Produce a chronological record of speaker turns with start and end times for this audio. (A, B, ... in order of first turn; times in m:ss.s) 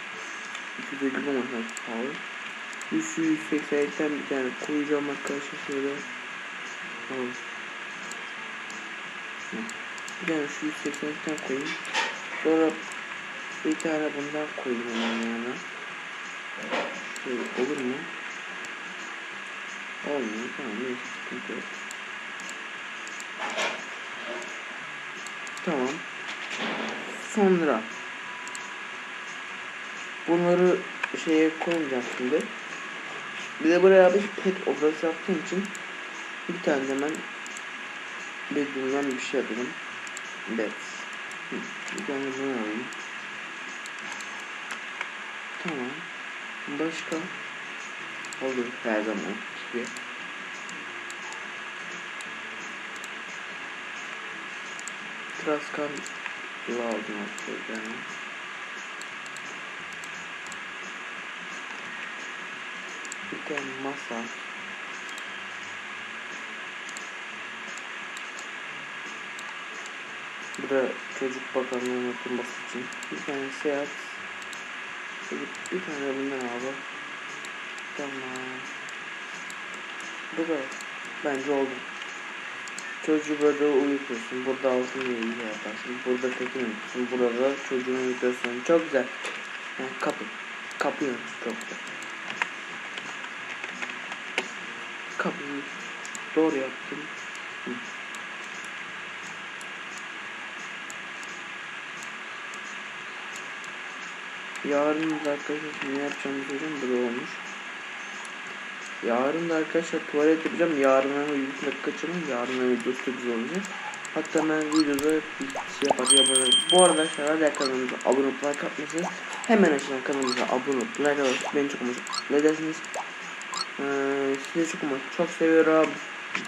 0:00.8-0:02.2 A
0:02.9-0:06.0 A
0:07.1-0:07.4 A
0:09.5-0:11.8 A
0:12.4-0:12.8 A
0:13.6-0:15.6 A
0:17.0-0:18.1 A
0:20.0-0:21.7 A
0:25.6-0:26.0 A
0:27.0-0:27.9 A
0:30.2-0:32.5 A
0:33.6-0:35.7 A
0:36.5-0:37.2 A
0:38.5-0:39.8 A
0:40.5-0:42.9 A
0:45.6-0:46.1 A
0:46.6-0:47.3 A
0:48.4-0:49.9 A
0:55.4-0:56.1 A
0:56.6-0:58.1 A
1:03.3-1:04.4 A
1:10.6-1:14.2 A
1:15.3-1:16.8 A
1:17.9-1:18.7 A
1:20.3-1:21.9 A
1:23.0-1:29.2 A
1:29.8-1:31.8 A
1:35.2-1:37.1 A
1:44.6-1:47.4 A
1:49.0-2:02.8 A
2:03.8-2:06.0 A